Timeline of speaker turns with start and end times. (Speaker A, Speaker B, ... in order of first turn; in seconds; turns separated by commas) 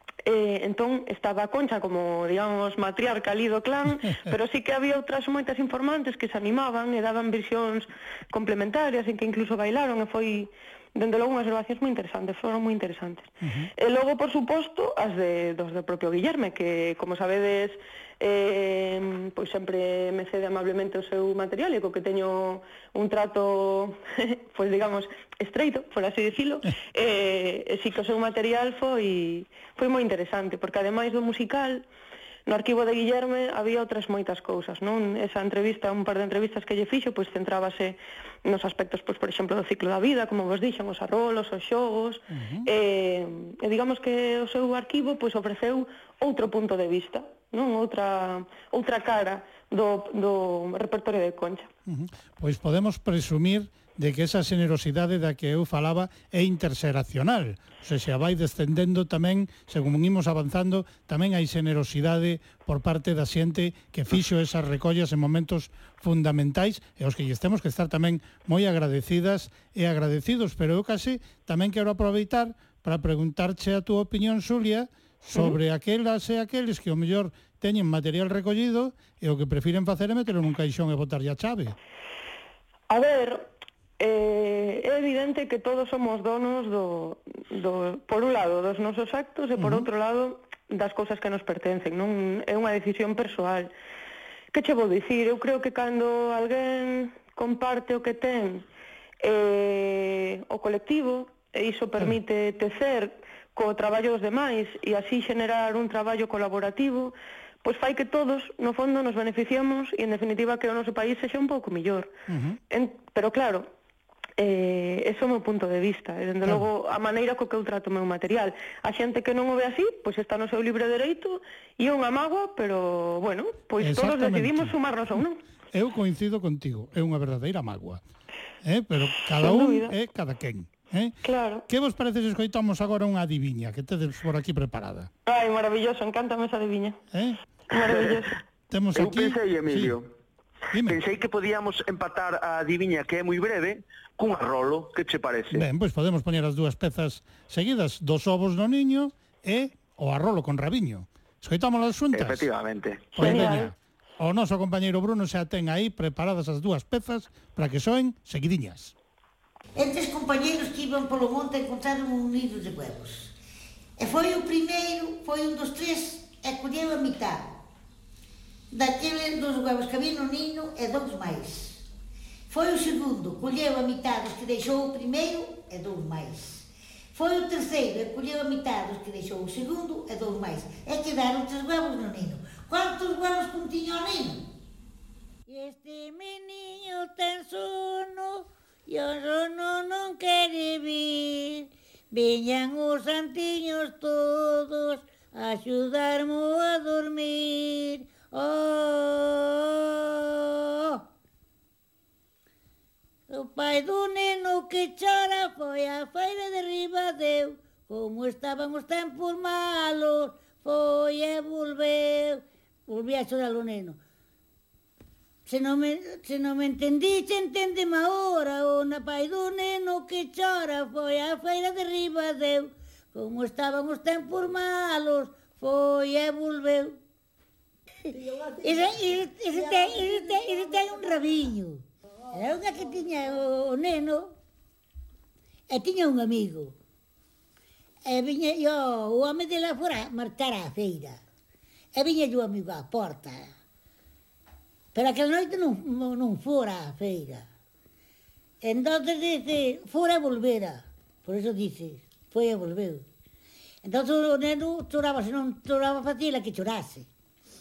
Speaker A: 0.2-31.8, Speaker B: 13.4-13.7, Speaker A: 32.5-51.7, Speaker B: 42.3-42.7, Speaker B: 51.9-81.8, Speaker A: 82.9-83.5, Speaker A: 84.0-93.7, Speaker B: 89.6-89.9, Speaker A: 94.5-98.6, Speaker A: 99.2-112.1, Speaker B: 112.3-112.6, Speaker A: 112.7-113.7, Speaker A: 114.4-125.4, Speaker B: 123.8-124.7, Speaker B: 125.7-128.0, Speaker B: 128.6-131.2, Speaker A: 129.4-129.9, Speaker A: 131.2-131.6, Speaker B: 131.7-135.1, Speaker A: 135.2-137.0, Speaker B: 137.1-137.4, Speaker A: 137.7-138.3, Speaker B: 138.7-140.0, Speaker C: 138.9-140.1, Speaker B: 140.7-141.0, Speaker C: 140.8-145.6, Speaker B: 145.5-152.5, Speaker C: 152.1-153.4, Speaker B: 153.1-158.9, Speaker A: 153.2-153.7, Speaker D: 159.8-163.3, Speaker D: 164.0-167.5, Speaker D: 168.7-171.8, Speaker D: 172.5-184.4, Speaker D: 185.5-201.0, Speaker D: 203.3-214.0, Speaker D: 215.5-227.0, Speaker D: 228.1-234.3, Speaker D: 235.7-236.8, Speaker D: 238.1-241.2, Speaker D: 241.9-243.5, Speaker D: 244.9-247.5, Speaker D: 248.6-253.0, Speaker D: 253.8-257.1